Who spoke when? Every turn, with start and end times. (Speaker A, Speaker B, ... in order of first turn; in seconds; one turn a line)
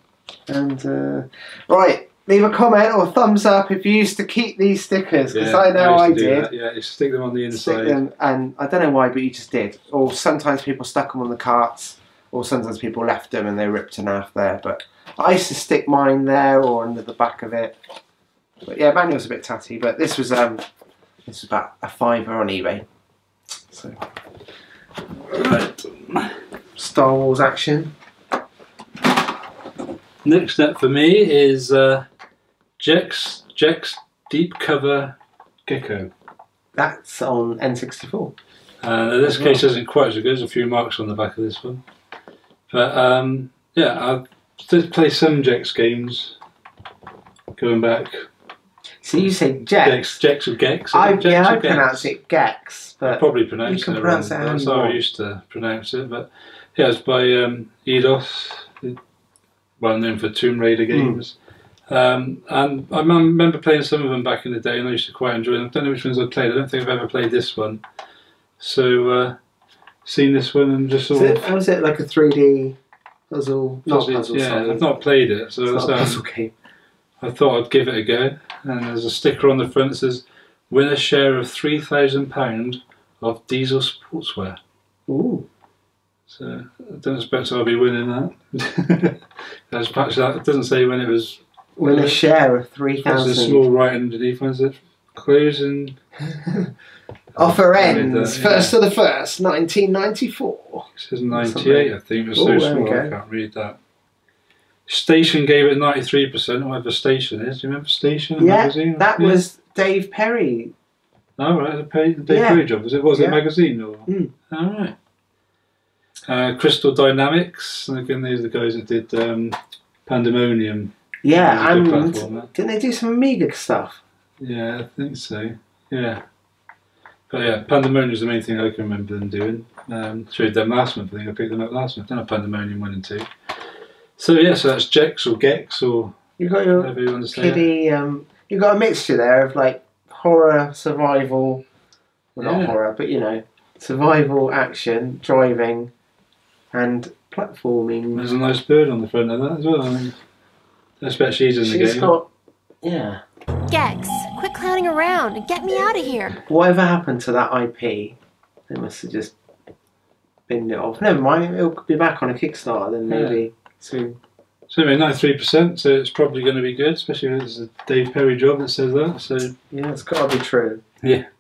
Speaker A: 0.5-6.5
Speaker B: 5.3-8.0
Speaker A: 7.5-17.8
Speaker A: 18.6-20.6
Speaker A: 21.3-22.9
Speaker A: 23.7-24.0
Speaker B: 25.3-26.4
Speaker A: 26.8-27.9
Speaker B: 30.2-32.1
Speaker B: 32.8-36.1
Speaker A: 36.8-38.3
Speaker B: 38.8-41.8
Speaker A: 39.2-39.6
Speaker B: 42.7-46.4
Speaker B: 47.6-48.3
Speaker A: 49.0-50.2
Speaker B: 49.8-52.1
Speaker A: 50.9-55.0
Speaker B: 53.0-59.0
Speaker B: 59.8-61.4
Speaker A: 60.9-61.2
Speaker B: 61.9-67.8
Speaker B: 68.6-69.4
Speaker B: 70.0-71.5
Speaker A: 71.1-72.8
Speaker A: 73.3-74.9
Speaker B: 73.8-76.2
Speaker A: 75.7-76.5
Speaker B: 77.2-84.6
Speaker A: 85.1-85.5
Speaker B: 86.3-92.2
Speaker A: 91.8-93.7
Speaker B: 93.0-96.0
Speaker A: 96.3-96.7
Speaker B: 97.4-98.7
Speaker A: 97.4-103.2
Speaker B: 101.0-103.8
Speaker B: 104.9-109.4
Speaker A: 108.4-110.7
Speaker B: 111.4-115.0
Speaker A: 112.3-113.4
Speaker A: 114.1-114.3
Speaker B: 116.3-122.5
Speaker A: 121.2-124.0
Speaker B: 124.4-126.2
Speaker B: 127.3-133.3
Speaker B: 134.2-136.2
Speaker A: 136.4-141.6
Speaker B: 136.8-137.7
Speaker A: 142.4-145.9
Speaker B: 142.4-142.8
Speaker A: 146.7-148.3
Speaker B: 148.2-150.2
Speaker B: 151.0-152.1
Speaker A: 151.6-152.3
Speaker A: 152.8-153.2
Speaker C: 153.7-156.4
Speaker A: 156.4-158.2
Speaker A: 158.7-159.3
Speaker A: 160.5-164.2
Speaker B: 163.1-163.4
Speaker B: 164.7-169.5
Speaker A: 169.7-170.8